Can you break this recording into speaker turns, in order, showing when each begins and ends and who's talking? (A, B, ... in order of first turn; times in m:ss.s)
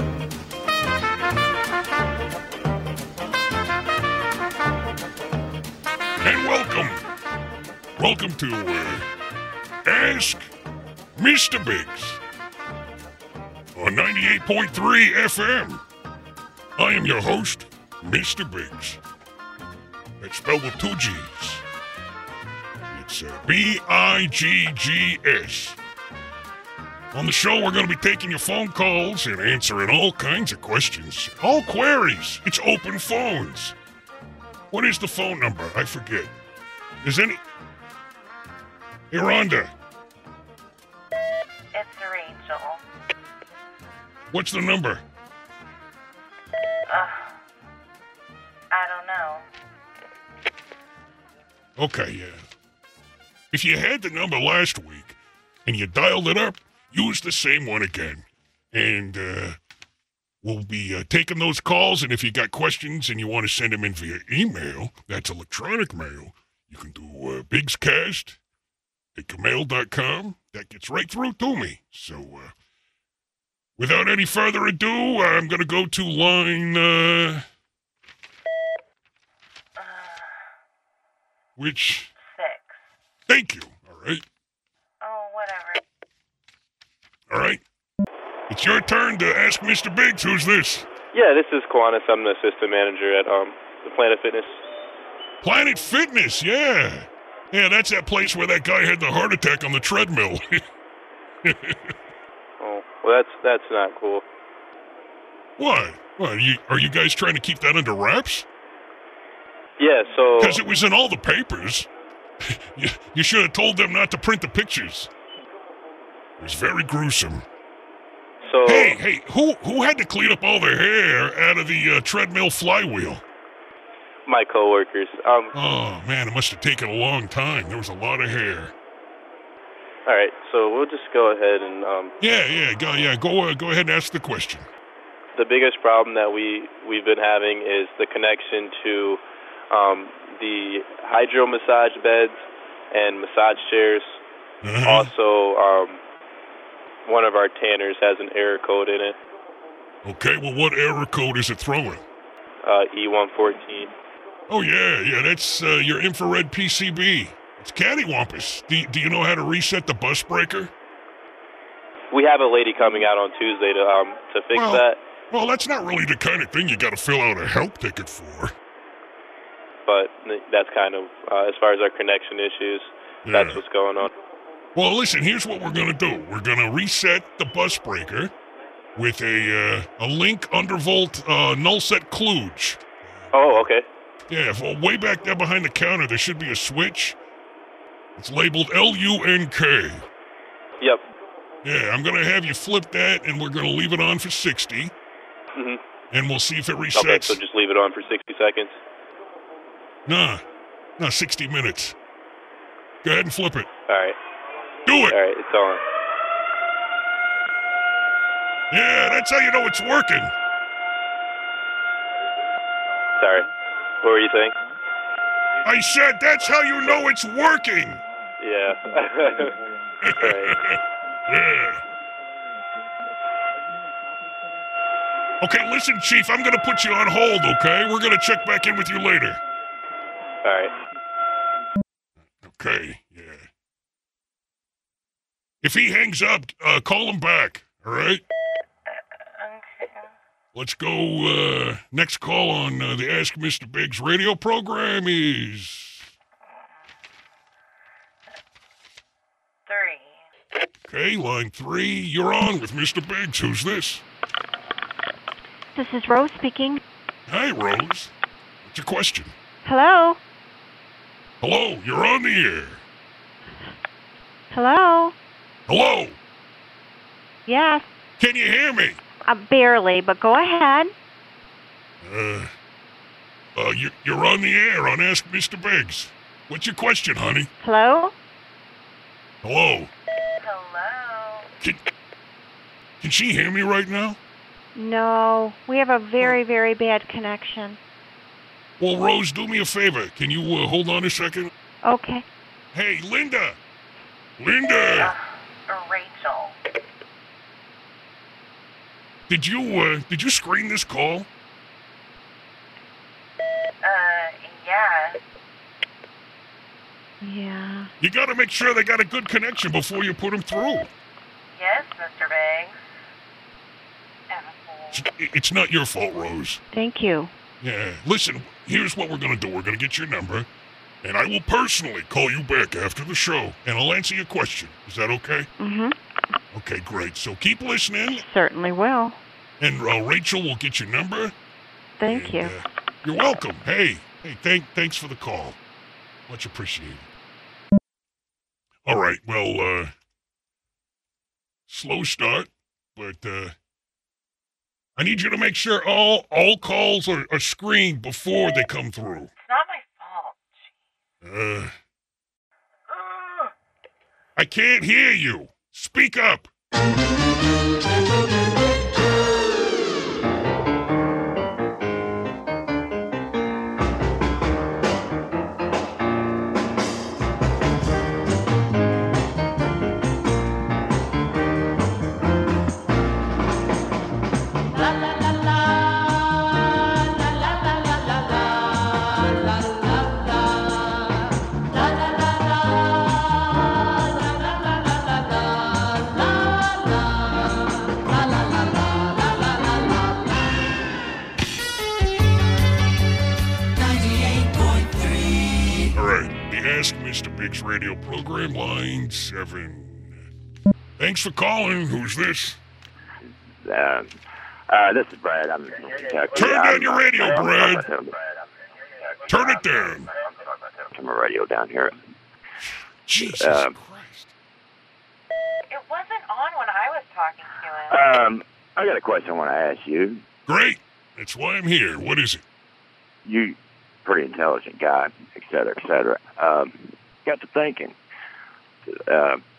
0:06.2-0:07.0 A
0:08.0-0:09.1 A
0:09.8-0:10.5 A
0:11.2-0:12.2 A
0:13.7-0:15.8 A
0:16.8-0:19.0 A
0:20.2-0:21.6 A
0:22.9-0:25.8 A
0:27.1-0:33.7 A
0:34.7-0:36.3 A
0:37.0-0:37.4 A
0:39.1-0:39.7 A
0:41.7-0:42.8 B
0:44.3-0:45.0 A
0:46.9-0:47.4 B
0:48.7-0:49.4 B
0:51.8-0:52.4 A
0:53.5-0:59.6 A
1:00.4-1:08.4 A
1:09.1-1:12.5 A
1:13.8-1:17.4 A
1:19.8-1:20.5 B
1:21.6-1:22.1 A
1:22.2-1:22.8 B
1:23.3-1:24.2 A
1:25.0-1:25.8 B
1:27.3-1:27.6 A
1:28.5-1:30.9 A
1:31.1-1:34.6 C
1:35.4-1:40.6 A
1:41.4-1:41.9 A
1:42.6-1:44.2 C
1:45.6-1:48.4 A
1:49.8-1:50.6 C
1:50.4-1:51.9 A
1:52.4-1:55.1 A
1:56.4-1:57.4 A
1:58.4-1:59.0 C
1:58.6-2:03.2 A
2:04.2-2:05.5 C
2:05.5-2:08.7 A
2:10.0-2:12.1 C
2:12.2-2:14.7 A
2:15.4-2:22.4 C
2:22.9-2:24.2 C
2:24.6-2:25.1 A
2:24.8-2:26.0 C
2:27.0-2:29.2 C
2:30.0-2:32.0 A
2:32.6-2:33.9 C
2:34.5-2:40.7 A
2:42.1-2:45.0 C
2:44.5-2:48.5 A
2:49.9-2:54.1 C
2:53.2-2:53.6 A
2:54.7-2:58.3 A
2:59.0-3:02.8 A
3:03.3-3:03.8 C
3:04.3-3:07.2 A
3:08.2-3:10.0 A
3:11.6-3:14.9 A
3:15.6-3:15.8 C
3:16.1-3:17.4 A
3:16.9-3:18.8 C
3:20.0-3:20.4 A
3:21.0-3:21.9 A
3:23.0-3:23.7 A
3:23.9-3:24.2 C
3:24.9-3:25.2 A
3:25.1-3:25.8 C
3:28.7-3:30.3 A
3:33.2-3:33.4 C
3:34.0-3:34.6 C
3:35.6-3:38.0 A
3:38.4-3:39.5 C
3:40.0-3:41.8 A
3:40.2-3:40.6 C
3:45.4-3:49.4 A
3:50.4-3:50.7 C
3:52.4-3:53.5 A
3:55.6-3:58.2 A
3:59.4-4:00.1 B
4:00.5-4:06.1 A
4:09.6-4:10.2 B
4:10.8-4:14.0 A
4:15.7-4:16.8 D
4:17.3-4:18.1 A
4:18.6-4:19.3 A
4:19.6-4:20.2 D
4:21.4-4:22.8 A
4:24.5-4:25.1 D
4:25.7-4:26.2 A
4:27.5-4:27.9 D
4:28.2-4:29.0 A
4:29.2-4:30.9 D
4:32.0-4:32.5 A
4:33.5-4:37.5 A
4:37.6-4:38.1 D
4:39.4-4:39.9 A
4:40.4-4:41.5 B
4:43.0-4:44.2 A
4:44.7-4:47.8 D
4:48.8-4:51.5 A
4:51.8-4:52.2 D
4:52.7-4:53.6 A
4:54.4-4:55.1 A
4:54.9-4:56.6 B
4:59.3-5:01.3 A
5:03.8-5:05.2 B
5:07.2-5:07.9 D
5:08.0-5:10.9 A
5:11.5-5:12.8 B
5:14.3-5:15.0 B
5:14.9-5:16.6 A
5:16.7-5:17.3 D
5:17.6-5:20.5 A
5:21.0-5:25.5 A
5:25.6-5:25.9 D
5:26.5-5:28.2 A
5:28.1-5:29.2 D
5:29.6-5:31.3 A
5:32.0-5:32.6 D
5:32.1-5:35.6 A
5:36.3-5:37.1 A
5:38.8-5:39.9 A
5:41.7-5:43.5 A
5:45.0-5:49.3 A
5:49.4-5:50.7 B
5:51.2-5:51.7 A
5:52.9-5:53.5 B
5:54.4-5:56.5 A
6:35.9-6:40.2 A
6:41.0-6:42.6 A
6:43.6-6:44.1 E
6:44.7-6:48.3 E
6:46.3-6:47.9 A
6:49.3-6:50.1 A
6:50.9-6:51.9 E
6:53.0-6:54.3 A
6:53.2-6:53.7 E
6:55.7-6:58.1 B
6:57.9-7:00.2 E
7:00.5-7:02.4 A
7:03.2-7:07.9 E
7:08.9-7:09.4 E